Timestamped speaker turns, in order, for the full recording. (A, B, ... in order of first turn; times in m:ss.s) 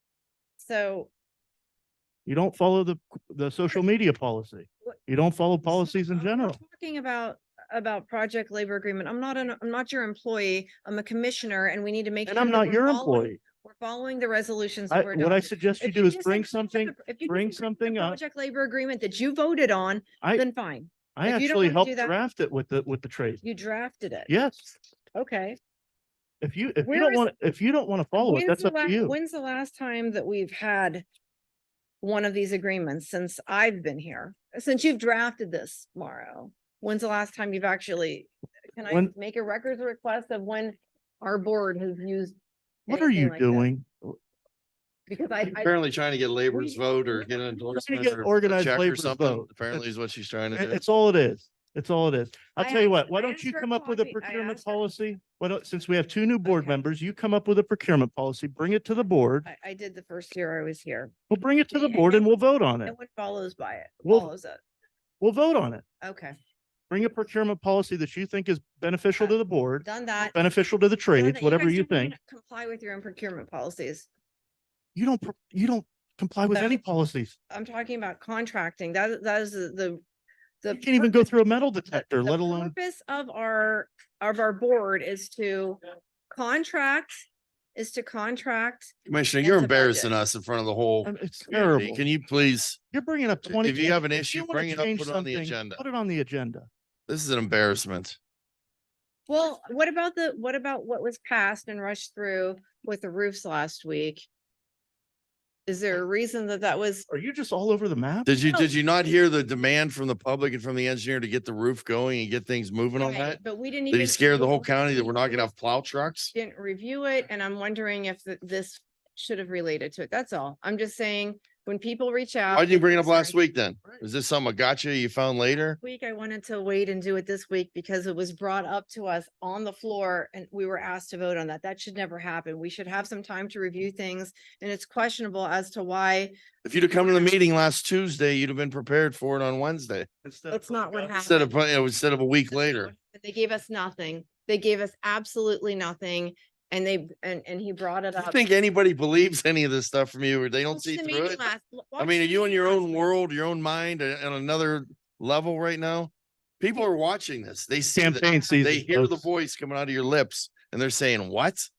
0:00.6-0:01.1 A
0:02.2-0:06.6 B
0:05.6-0:22.1 A
0:12.2-0:13.4 B
0:14.9-0:18.2 B
0:21.1-0:23.4 B
0:23.4-0:24.3 A
0:24.3-0:24.7 B
0:25.1-0:25.6 A
0:26.4-0:29.2 B
0:26.8-0:27.3 A
0:28.2-0:31.0 A
0:32.0-0:42.4 A
0:38.9-0:39.1 B
0:42.9-0:44.2 B
0:42.9-0:43.6 A
0:45.1-0:45.8 A
0:45.5-0:50.8 C
0:46.5-0:47.3 A
0:47.7-0:49.8 B
0:50.5-0:59.5 B
0:52.6-0:54.8 A
0:56.4-0:56.8 A
0:59.4-1:01.1 A
1:01.3-1:02.9 B
1:01.7-1:02.3 A
1:02.8-1:04.6 A
1:04.0-1:04.3 B
1:05.2-1:05.8 B
1:06.0-1:06.4 A
1:06.9-1:12.1 B
1:09.2-1:10.3 A
1:11.1-1:14.1 A
1:14.9-1:17.4 B
1:16.5-1:16.8 A
1:17.5-1:20.0 A
1:20.6-1:21.3 A
1:20.7-1:22.7 B
1:22.2-1:30.1 A
1:29.0-1:32.8 C
1:31.0-1:32.0 B
1:32.9-1:36.7 B
1:33.5-1:35.8 C
1:37.1-1:38.2 C
1:39.3-1:44.3 A
1:45.6-1:47.1 A
1:47.1-1:48.3 B
1:48.2-1:56.3 C
1:53.0-1:55.5 A
1:56.3-2:03.4 A
2:02.5-2:05.8 C
2:05.8-2:16.4 A
2:16.6-2:20.1 C
2:16.9-2:17.4 A
2:20.2-2:21.3 B
2:20.5-2:21.5 A
2:21.2-2:22.9 C
2:22.5-2:28.4 A
2:28.2-2:31.4 C
2:30.7-2:33.1 A
2:32.0-2:41.7 C
2:37.9-2:39.2 B